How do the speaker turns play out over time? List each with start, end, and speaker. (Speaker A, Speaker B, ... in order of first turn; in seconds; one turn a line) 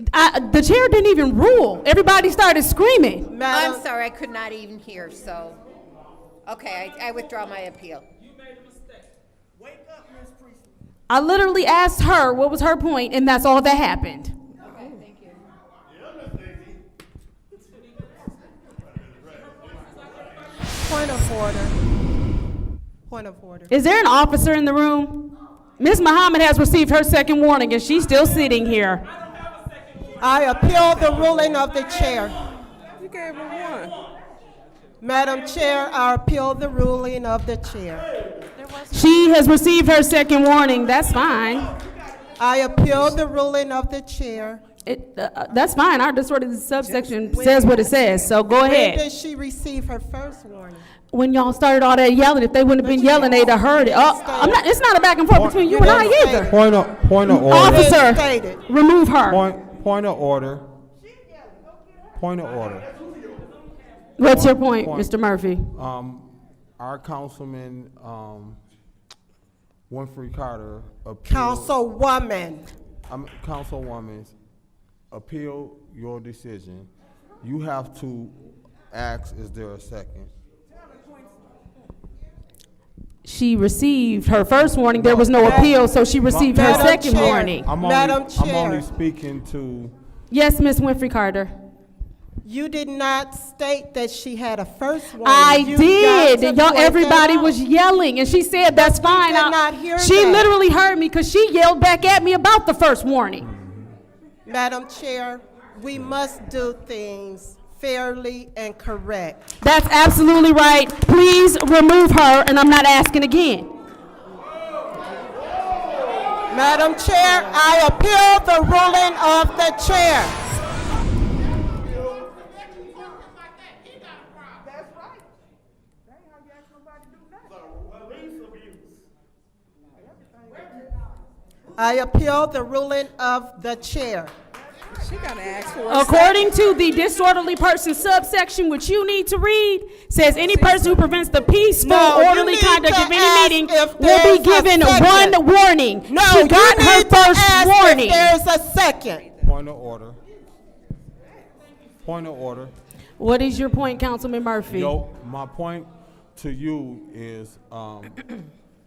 Speaker A: 0.1-3.3
Speaker B: 3.3-3.8
Speaker C: 3.5-5.6
Speaker C: 6.4-8.1
Speaker A: 11.1-14.3
Speaker C: 14.7-15.2
Speaker B: 20.7-21.7
Speaker B: 23.1-23.7
Speaker A: 23.7-29.0
Speaker B: 30.2-32.4
Speaker D: 32.9-33.9
Speaker B: 35.0-38.1
Speaker A: 38.8-41.7
Speaker B: 42.4-44.6
Speaker A: 44.8-49.0
Speaker B: 47.3-47.9
Speaker B: 48.6-50.9
Speaker A: 51.1-56.5
Speaker B: 52.8-54.6
Speaker E: 55.3-58.0
Speaker B: 55.7-56.6
Speaker A: 57.3-59.4
Speaker B: 57.5-58.6
Speaker E: 59.3-60.7
Speaker E: 62.1-62.9
Speaker A: 64.2-65.7
Speaker E: 64.2-65.1
Speaker E: 65.7-68.6
Speaker E: 69.9-71.7
Speaker B: 71.2-72.6
Speaker E: 73.1-74.3
Speaker E: 75.1-76.9
Speaker E: 77.4-78.3
Speaker E: 78.9-80.3
Speaker A: 83.2-87.7
Speaker E: 84.9-85.7
Speaker B: 85.4-85.8
Speaker E: 86.2-89.9
Speaker B: 86.5-88.8
Speaker A: 90.3-91.5
Speaker B: 92.4-97.6
Speaker A: 95.2-103.5
Speaker B: 98.7-100.5
Speaker E: 103.5-103.9
Speaker B: 104.5-109.4
Speaker A: 109.6-113.7
Speaker B: 116.5-120.3
Speaker B: 131.8-134.3
Speaker D: 135.0-136.3
Speaker A: 135.9-148.3
Speaker B: 136.2-136.5
Speaker B: 141.8-145.4
Speaker B: 146.1-149.3
Speaker E: 149.4-150.2
Speaker E: 152.0-152.7
Speaker A: 153.2-154.9
Speaker E: 154.7-158.2